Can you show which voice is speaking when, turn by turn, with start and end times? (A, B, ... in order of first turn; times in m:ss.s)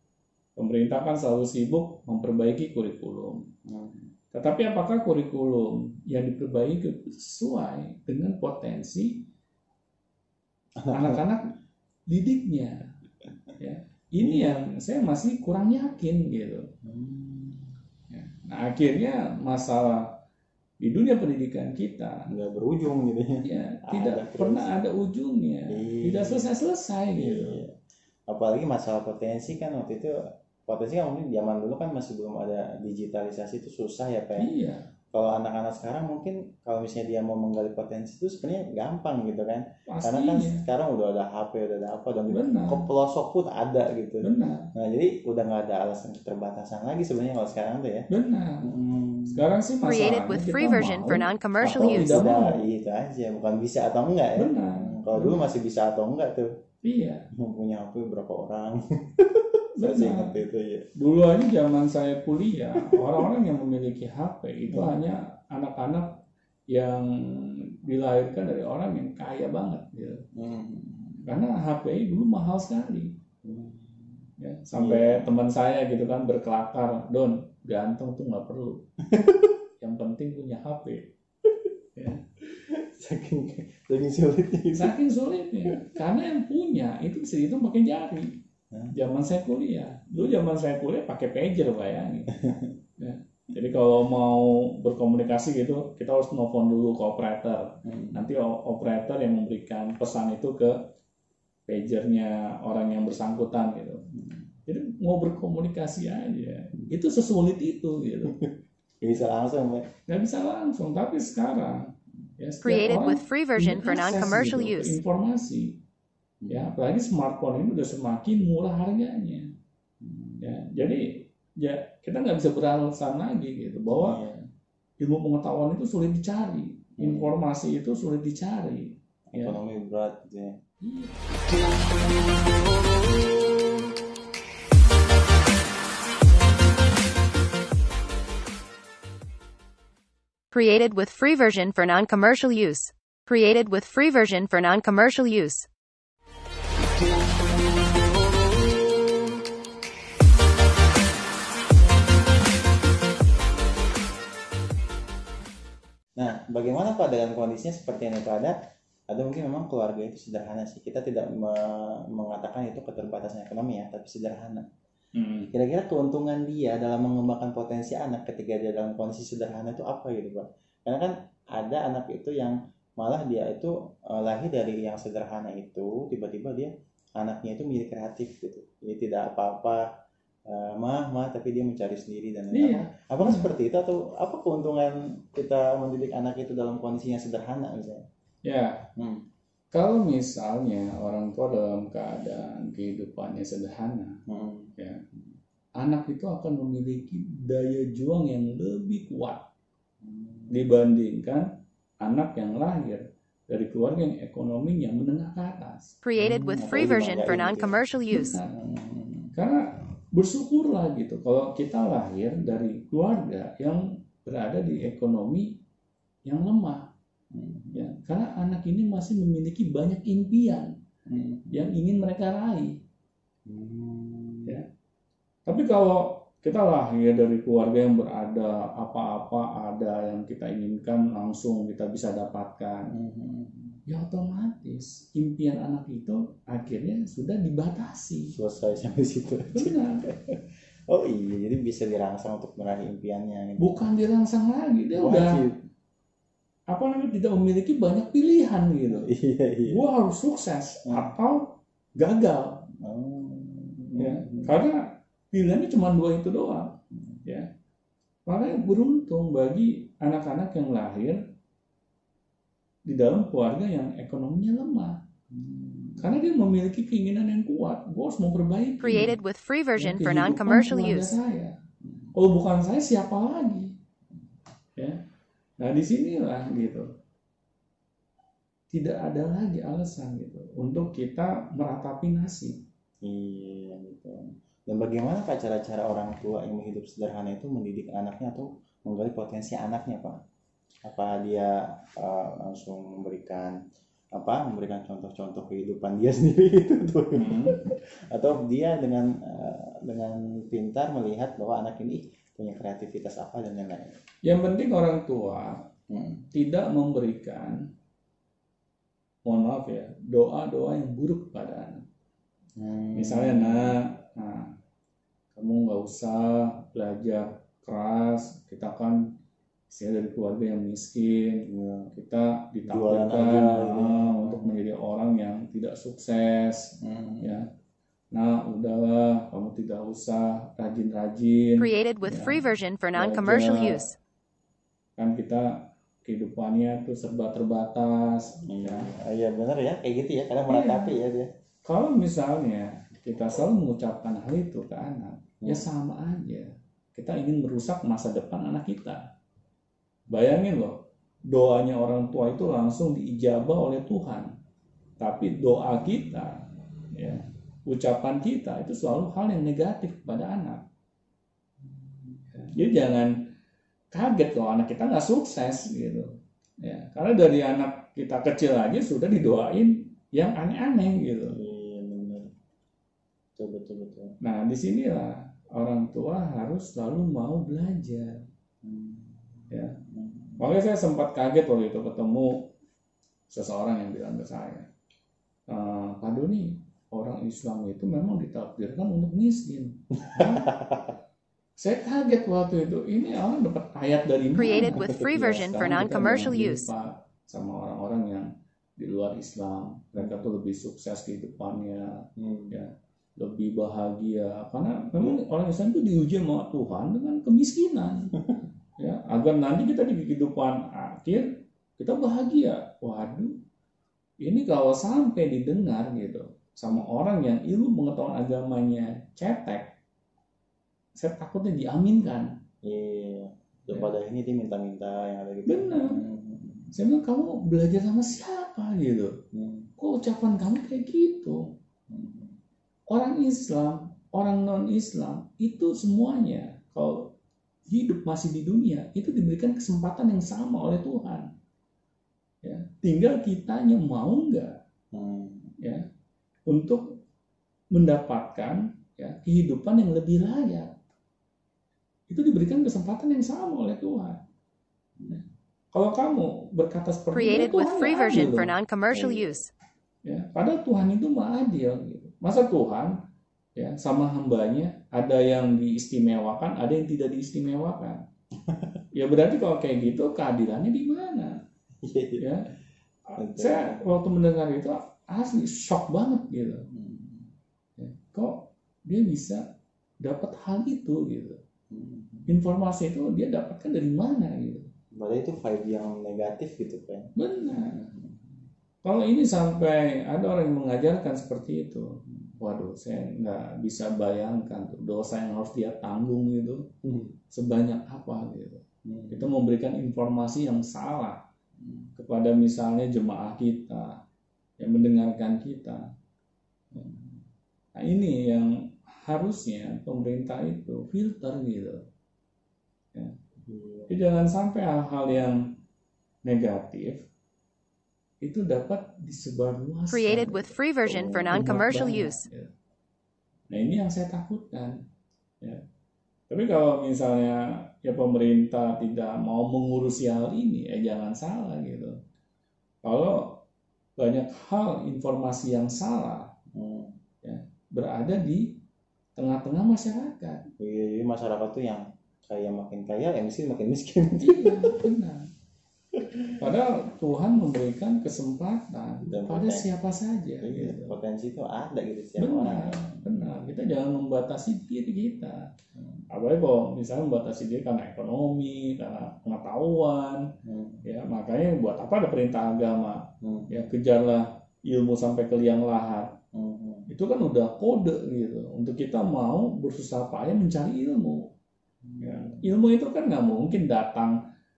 0:00.6-0:03.5 A
0:03.6-0:04.1 B
0:04.3-0:09.2 A
0:10.8-0:11.2 B
0:10.9-0:11.5 A
0:12.1-0:12.9 A
0:13.6-0:16.7 A
0:14.2-0:14.7 B
0:16.8-0:17.8 B
0:18.1-0:20.2 A
0:20.8-0:22.3 A
0:22.3-0:24.7 B
0:23.4-0:27.6 A
0:25.7-0:26.5 B
0:27.1-0:27.8 B
0:28.3-0:34.5 B
0:34.4-0:34.9 A
0:35.1-0:48.1 B
0:39.9-0:40.6 A
0:42.3-0:42.9 A
0:44.2-0:44.7 A
0:48.1-0:48.7 A
0:48.6-0:50.2 B
0:49.3-0:52.6 A
0:49.8-0:52.3 C
0:51.1-0:56.5 B
0:54.4-0:55.5 A
0:56.8-0:57.3 A
0:57.3-1:00.9 B
0:59.8-1:00.4 A
1:01.0-1:06.2 A
1:02.8-1:03.3 B
1:04.7-1:05.0 B
1:06.7-1:10.2 A
1:10.3-1:11.3 B
1:11.2-1:13.1 A
1:13.4-1:15.3 B
1:14.4-1:18.8 A
1:19.0-1:19.6 B
1:19.8-1:21.1 A
1:21.4-1:21.7 B
1:22.0-1:22.2 A
1:22.4-1:25.0 B
1:24.7-1:28.4 A
1:25.6-1:26.0 B
1:28.7-1:29.0 B
1:28.9-1:40.8 A
1:30.1-1:30.4 B
1:32.3-1:32.8 B
1:37.8-1:38.2 B
1:41.7-1:44.0 A
1:44.1-1:44.4 B
1:44.6-1:48.4 A
1:48.2-1:49.9 B
1:50.1-1:55.8 A
1:52.6-1:55.0 C
1:56.4-1:56.7 B
1:56.5-1:59.5 A
2:00.0-2:00.7 B
2:00.4-2:04.2 A
2:03.9-2:04.4 B
2:05.0-2:09.6 A
2:07.0-2:07.4 B
2:09.3-2:10.6 B
2:10.8-2:11.1 A
2:20.5-2:25.7 C
2:36.2-2:38.6 B
2:39.1-2:44.6 B
2:45.1-2:45.5 A
2:45.5-2:59.8 B
3:00.5-3:08.0 B
3:02.5-3:03.5 A
3:08.4-3:08.9 A
3:09.0-3:09.2 B
3:09.7-3:14.2 A
3:14.3-3:14.7 B
3:15.8-3:19.4 A
3:20.0-3:20.8 B
3:20.5-3:21.4 A
3:22.0-3:25.9 A
3:26.0-3:28.4 C
3:26.2-3:27.8 B
3:28.1-3:28.6 A
3:28.5-3:29.3 B
3:29.3-3:35.5 A
3:36.2-3:36.9 A
3:37.3-3:38.0 B
3:37.7-3:40.7 A
3:41.0-3:41.8 B
3:41.5-3:42.8 A
3:43.5-3:44.6 B
3:45.4-3:52.9 A
3:52.9-3:53.8 B
3:53.9-3:58.3 A
3:58.3-4:03.9 B
3:59.5-4:00.1 A
4:03.6-4:05.4 A
4:04.9-4:05.6 B
4:06.7-4:09.1 A
4:08.9-4:09.8 B
4:09.6-4:12.6 A
4:10.8-4:11.1 B
4:12.8-4:14.6 B
4:14.0-4:14.8 A
4:15.3-4:17.5 A
4:16.9-4:17.2 B
4:18.3-4:21.2 A
4:22.8-4:25.0 A
4:25.3-4:26.3 B
4:26.0-4:29.2 A
4:28.8-4:31.1 C
4:29.8-4:31.6 A
4:31.8-4:32.1 B
4:32.1-4:33.7 A
4:35.6-4:36.9 A
4:38.7-4:42.6 A
4:43.0-4:50.2 B
4:50.8-4:53.6 B
4:54.1-5:04.0 B
4:57.1-4:57.7 A
5:04.2-5:05.6 A
5:05.9-5:06.2 B
5:06.3-5:07.7 A
5:09.2-5:11.8 A
5:12.6-5:13.8 B
5:12.9-5:14.5 A
5:15.3-5:19.1 A
5:19.7-5:27.5 A
5:21.4-5:21.9 B
5:22.6-5:24.6 B
5:26.8-5:27.4 B
5:28.1-5:33.8 A
5:31.6-5:33.9 C
5:35.0-5:38.9 A
5:38.4-5:41.3 B
5:40.5-5:40.9 A
5:41.6-5:49.1 A
5:50.1-5:54.3 A
5:55.0-6:00.6 A
6:02.3-6:03.2 A
6:03.9-6:11.4 A
6:11.3-6:12.3 B
6:13.4-6:14.2 B
6:14.2-6:18.2 A
6:18.6-6:20.6 B
6:19.5-6:19.8 A
6:20.4-6:22.5 A
6:23.3-6:24.7 A
6:25.5-6:30.6 A
6:30.0-6:31.0 B
6:31.6-6:48.2 A
6:34.3-6:36.7 C
6:34.5-6:36.1 B
6:40.0-6:40.3 B
6:42.2-6:42.6 B
6:45.0-6:45.2 B
6:48.8-6:53.4 A
6:54.2-6:59.7 A
7:01.0-7:02.3 A
7:02.6-7:06.7 B
7:05.4-7:06.0 A
7:06.7-7:09.2 A
7:09.3-7:09.7 B
7:09.8-7:11.5 A
7:11.9-7:12.4 B
7:12.9-7:17.1 A
7:17.7-7:21.3 A
7:22.4-7:24.6 A
7:24.9-7:25.6 B
7:25.6-7:25.8 A
7:26.5-7:27.0 A
7:27.7-7:30.7 A
7:32.1-7:34.2 A
7:35.0-7:35.2 B
7:35.1-7:38.5 A
7:37.1-7:39.5 C
7:38.9-7:39.4 B
7:40.0-7:42.9 A
7:43.6-7:48.0 A
7:48.4-7:48.8 B
7:48.9-7:51.4 A
7:51.8-7:52.3 B
7:52.2-7:52.5 A
7:53.0-7:56.7 A
7:53.2-7:53.8 B
7:56.7-7:57.3 B
7:57.8-7:59.4 A
8:00.0-8:01.4 A
8:01.7-8:02.3 B
8:02.3-8:04.7 A
8:04.9-8:08.3 B
8:07.2-8:07.8 A
8:08.8-8:16.7 A
8:16.8-8:17.1 B
8:17.3-8:21.2 A
8:18.8-8:19.3 B
8:21.6-8:21.9 B
8:22.0-8:24.0 A
8:24.6-8:25.8 A
8:26.7-8:27.2 B
8:27.7-8:31.8 A
8:33.4-8:33.9 B
8:33.9-8:35.4 A
8:36.2-8:37.0 A
8:38.2-8:40.5 A
8:39.9-8:42.3 C
8:40.8-8:41.6 B
8:41.3-8:42.5 A
8:43.5-8:44.8 A
8:46.3-8:52.0 A
8:52.8-8:53.4 A
8:54.0-8:56.3 A
8:56.5-8:57.0 B
8:57.2-8:58.5 A
8:59.2-9:00.4 A
9:00.6-9:04.9 B
9:04.2-9:05.3 A
9:05.9-9:06.4 B
9:06.3-9:11.0 A
9:09.0-9:09.7 B
9:10.4-9:13.1 B
9:12.2-9:15.5 A
9:16.1-9:20.3 A
9:20.4-9:20.8 B
9:20.8-9:26.2 A
9:23.2-9:23.6 B
9:26.3-9:26.9 B
9:26.9-9:31.3 A
9:31.8-9:32.5 B
9:32.0-9:34.2 A